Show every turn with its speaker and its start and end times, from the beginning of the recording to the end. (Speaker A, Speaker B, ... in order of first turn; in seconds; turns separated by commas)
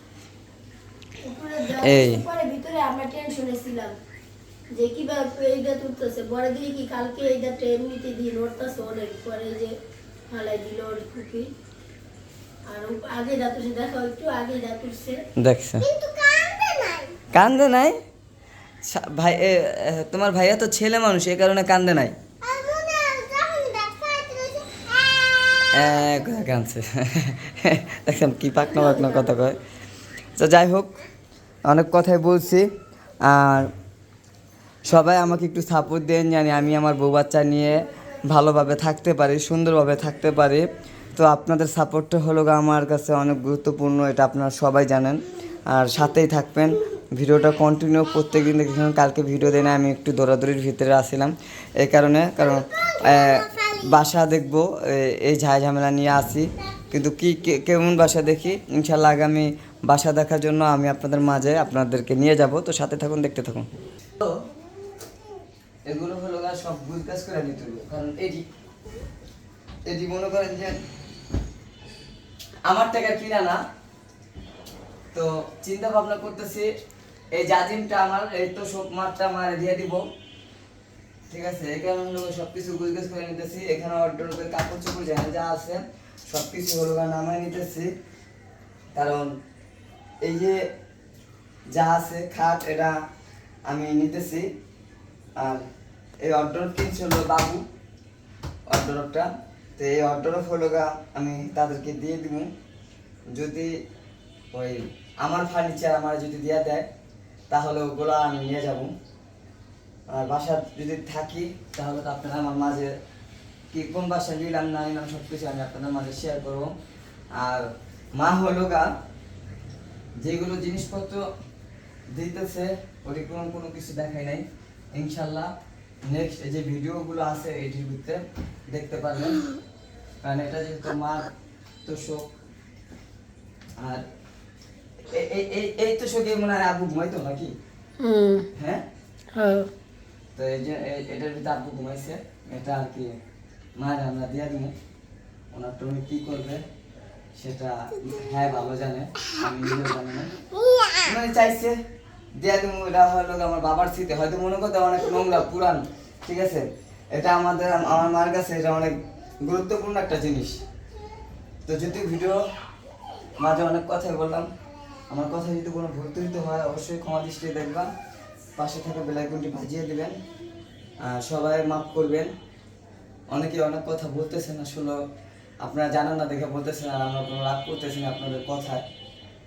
Speaker A: 1.2-3.9, Speaker B: 1.8-2.2, Speaker A: 4.7-9.7, Speaker A: 10.3-11.4, Speaker A: 12.7-15.2, Speaker B: 15.4-15.9, Speaker C: 15.8-17.2, Speaker B: 17.3-17.9, Speaker B: 18.8-22.1, Speaker C: 22.4-26.1, Speaker B: 25.7-29.6, Speaker A: 28.9-29.5, Speaker B: 30.4-30.9, Speaker B: 31.6-32.7, Speaker B: 33.2-33.7, Speaker B: 34.8-63.6, Speaker B: 65.8-68.4, Speaker B: 69.8-70.8, Speaker B: 72.6-73.6, Speaker B: 75.1-76.7, Speaker B: 77.3-80.1, Speaker B: 81.3-87.9, Speaker B: 88.9-89.3, Speaker B: 90.2-90.6, Speaker B: 91.7-93.0, Speaker B: 93.7-94.5, Speaker B: 95.4-95.6, Speaker B: 96.2-97.6, Speaker B: 98.7-102.5, Speaker B: 103.3-103.7, Speaker B: 104.5-106.9, Speaker B: 107.5-108.9, Speaker B: 110.1-112.9, Speaker B: 113.7-116.7, Speaker B: 117.3-118.9, Speaker B: 120.2-121.2, Speaker B: 122.1-125.5, Speaker B: 126.0-129.4, Speaker B: 130.2-131.3, Speaker B: 131.8-132.3, Speaker B: 133.8-134.0, Speaker B: 135.1-137.5, Speaker A: 138.0-138.5, Speaker B: 138.6-138.8, Speaker A: 139.3-139.7, Speaker B: 140.3-143.2, Speaker B: 143.8-144.7, Speaker B: 145.5-146.6, Speaker B: 147.3-150.4, Speaker B: 151.0-151.8, Speaker B: 152.3-160.6, Speaker B: 161.7-162.4, Speaker B: 163.4-164.5, Speaker B: 165.1-167.9, Speaker B: 168.6-170.1, Speaker B: 171.0-172.3, Speaker B: 173.3-175.0, Speaker B: 175.6-178.8